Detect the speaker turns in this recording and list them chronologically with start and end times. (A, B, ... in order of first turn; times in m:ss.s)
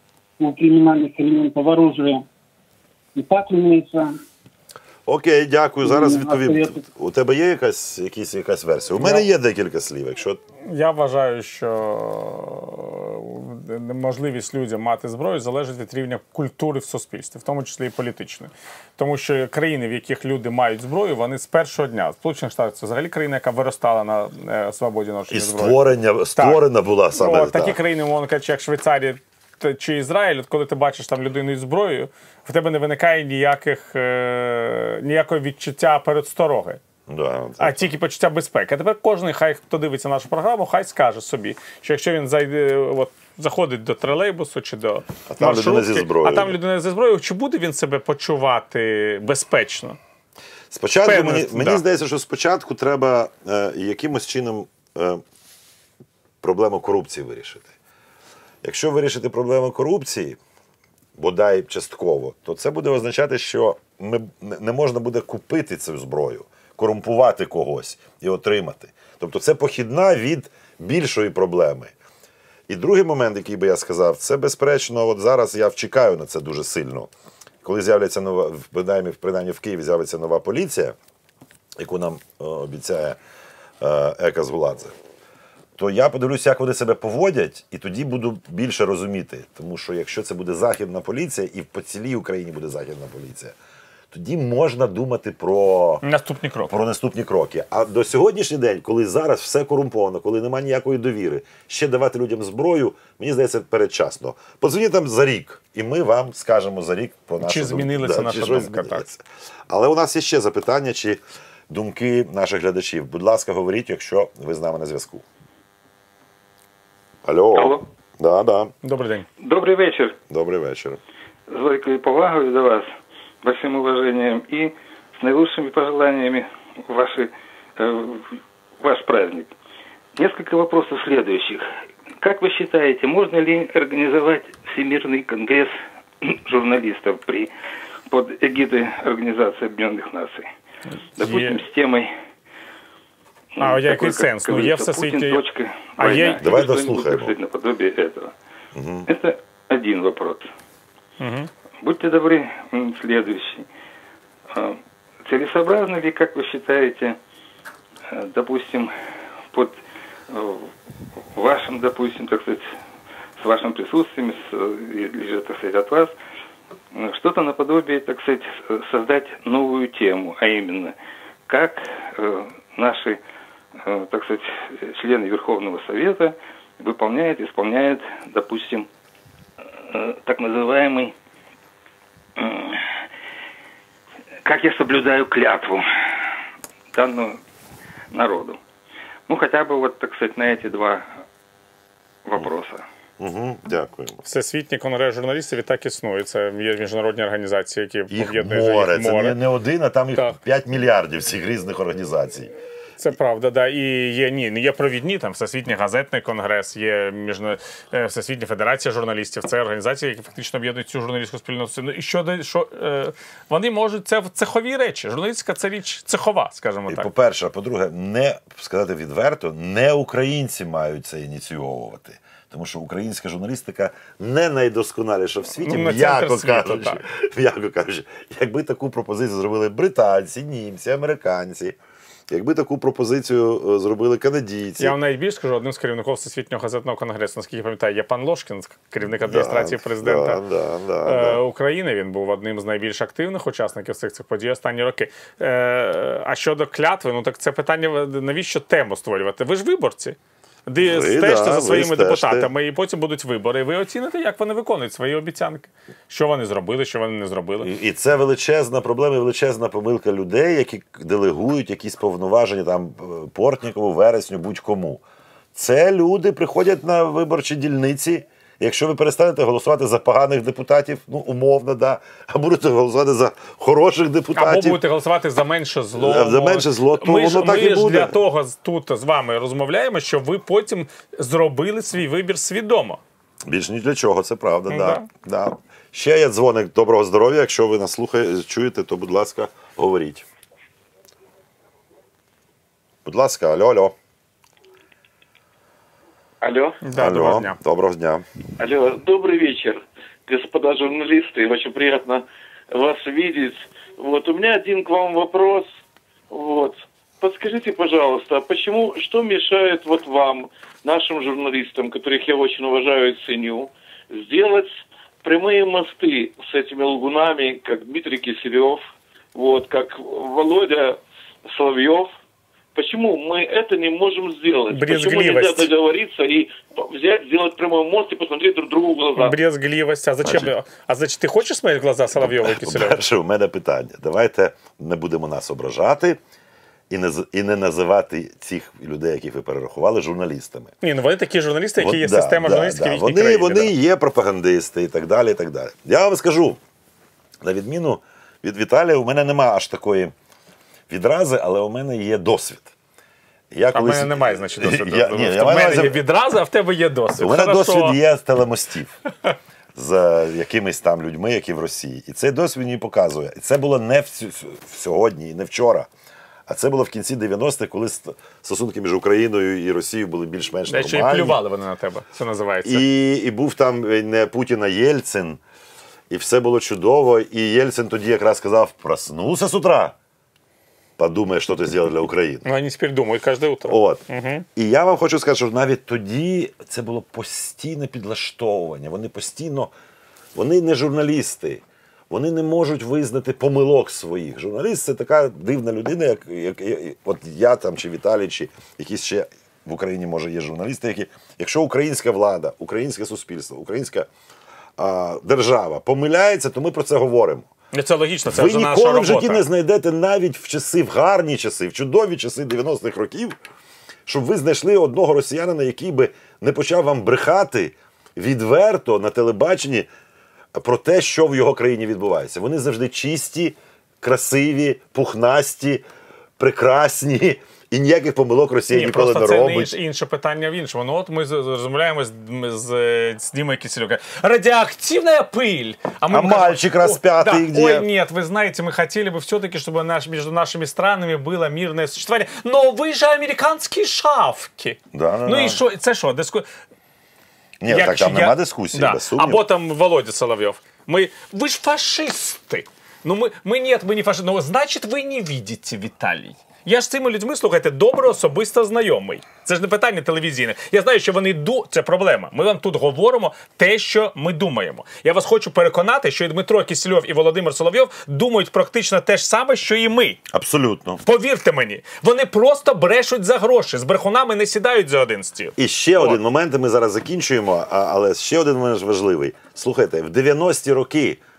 0:00.4-0:02.2 A
0:03.2-0:04.1 A
0:05.1-0:10.4 B
0:05.8-0:06.8 A
0:09.0-0:09.3 C
0:10.6-0:26.6 C
0:25.3-0:27.8 B
0:27.1-0:36.8 C
0:37.1-0:37.9 B
0:37.6-0:50.0 C
0:45.3-0:46.6 B
0:50.7-0:55.2 B
0:51.0-0:51.8 C
0:56.4-0:57.7 B
0:58.6-1:00.4 B
1:01.2-1:11.9 B
1:12.7-1:17.1 B
1:17.6-1:21.0 B
1:21.8-1:23.2 B
1:23.8-1:24.9 B
1:25.8-1:33.6 B
1:34.1-1:36.0 B
1:36.0-1:36.7 C
1:36.6-1:55.2 B
1:47.4-1:49.0 C
1:57.2-1:58.7 B
1:57.6-1:57.8 D
1:58.8-1:59.3 C
1:59.4-2:00.2 D
2:00.3-2:01.0 B
2:01.5-2:02.9 D
2:03.4-2:09.5 D
2:10.2-2:11.6 D
2:12.2-2:17.5 D
2:18.1-2:20.5 D
2:21.2-2:22.1 D
2:21.2-2:21.6 C
2:23.6-2:28.3 D
2:23.6-2:25.4 C
2:26.0-2:26.5 C
2:26.4-2:27.4 B
2:28.8-2:29.1 B
2:29.1-2:30.5 D
2:31.2-2:31.5 C
2:31.8-2:33.6 D
2:34.5-2:37.2 D
2:38.1-2:38.9 D
2:40.3-2:40.7 D
2:41.3-2:42.7 D
2:43.4-2:46.1 D
2:46.9-2:51.0 D
2:51.5-2:53.2 D
2:53.8-2:58.9 D
2:59.9-3:01.1 D
3:02.4-3:03.0 D
3:04.4-3:05.8 D
3:06.9-3:07.4 D
3:08.1-3:08.6 D
3:09.3-3:11.1 D
3:12.3-3:12.8 D
3:13.2-3:14.2 B
3:14.2-3:19.4 C
3:18.1-3:22.5 B
3:23.0-3:37.1 C
3:36.9-3:51.8 B
3:45.6-3:47.0 C
3:52.3-3:55.0 B
3:54.8-4:00.4 C
3:59.2-4:01.4 B
4:01.0-4:10.2 C
4:10.7-4:17.7 C
4:10.8-4:12.5 B
4:17.6-4:25.0 B
4:25.5-4:34.8 B
4:34.4-4:43.0 C
4:36.0-4:38.1 B
4:43.5-4:50.2 B
4:44.7-4:45.1 C
4:53.0-4:54.0 B
4:56.4-4:56.8 E
4:56.8-4:57.6 C
4:56.9-4:58.2 B
4:58.6-5:05.6 E
5:06.3-5:14.7 E
5:15.2-5:18.8 E
5:19.3-5:22.1 E
5:22.8-5:29.4 E
5:24.7-5:25.7 C
5:29.2-5:33.0 C
5:30.2-5:30.5 B
5:32.1-5:36.2 B
5:36.9-5:40.7 B
5:40.8-5:43.7 C
5:41.8-5:46.6 B
5:47.4-5:50.1 B
5:50.9-5:52.7 B
5:53.5-5:56.0 B
5:53.7-5:58.0 C
5:57.2-5:59.0 B
5:59.8-6:05.9 B
6:06.5-6:11.4 B
6:10.7-6:12.8 C
6:12.6-6:15.4 B
6:16.1-6:20.0 B
6:21.0-6:22.4 B
6:22.4-6:24.4 C
6:23.7-6:24.0 B
6:24.6-6:29.7 B
6:30.4-6:44.1 B
6:44.8-6:47.5 B
6:47.7-6:49.4 C
6:48.3-6:53.4 B
6:54.0-6:59.9 B
7:00.5-7:05.8 B
7:06.4-7:09.8 B
7:08.7-7:26.5 C
7:16.1-7:17.9 B
7:24.9-7:25.6 B
7:27.6-7:29.4 B
7:27.7-7:50.2 C
7:50.3-7:51.0 B
7:51.0-7:56.2 C
7:55.6-8:01.2 B